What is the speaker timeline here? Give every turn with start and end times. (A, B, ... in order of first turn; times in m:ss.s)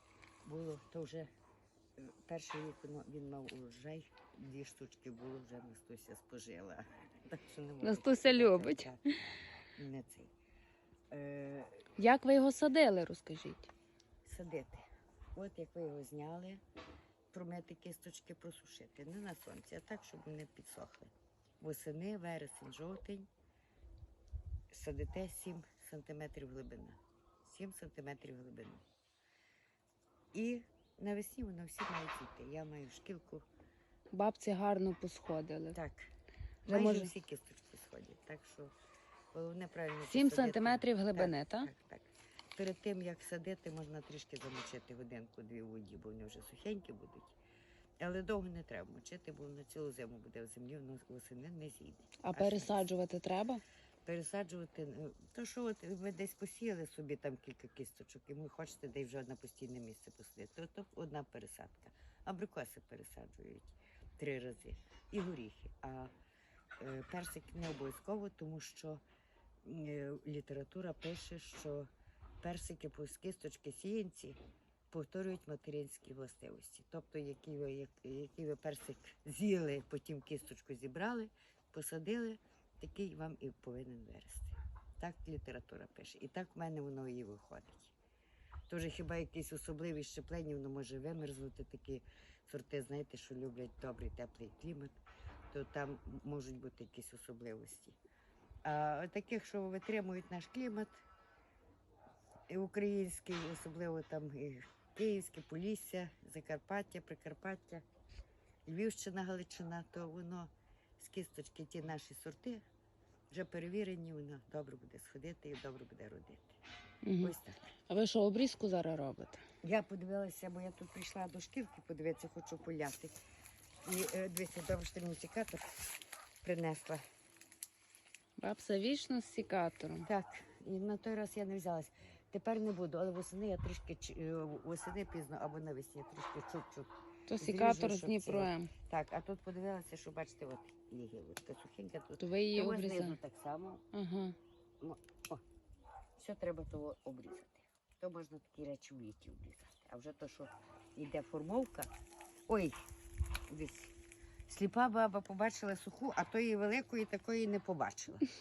0:00.4-0:01.3 A
0:02.0-0:09.0 A
0:07.8-0:09.2 B
0:09.8-0:10.3 A
0:11.1-0:11.9 A
0:12.0-0:13.7 B
0:14.2-0:16.6 A
0:17.3-0:23.3 A
0:24.7-0:28.8 A
0:30.3-0:33.4 A
0:34.1-0:35.8 B
0:35.7-0:36.1 A
0:36.7-0:37.1 B
0:36.7-0:38.7 A
0:39.3-0:47.4 A
0:40.1-0:41.7 B
0:48.0-0:52.9 A
0:52.2-0:53.6 B
0:54.0-1:06.1 A
1:06.8-1:09.0 A
1:09.6-1:11.9 A
1:12.4-1:14.4 A
1:14.9-1:27.9 A
1:28.7-1:35.0 A
1:35.5-1:38.0 A
1:38.6-1:41.0 A
1:42.5-1:47.8 A
1:48.7-1:52.6 A
1:53.3-1:56.6 A
1:57.0-1:57.4 B
1:57.2-1:57.7 A
1:57.9-1:59.4 B
1:59.6-2:03.2 A
2:03.8-2:05.9 A
2:06.4-2:07.0 A
2:08.4-2:10.1 B
2:10.0-2:23.8 A
2:17.3-2:18.7 B
2:22.2-2:23.2 B
2:23.9-2:24.4 B
2:24.8-2:25.4 A
2:26.2-2:31.9 A
2:32.5-2:32.8 A
2:33.5-2:33.9 A
2:34.5-2:38.3 A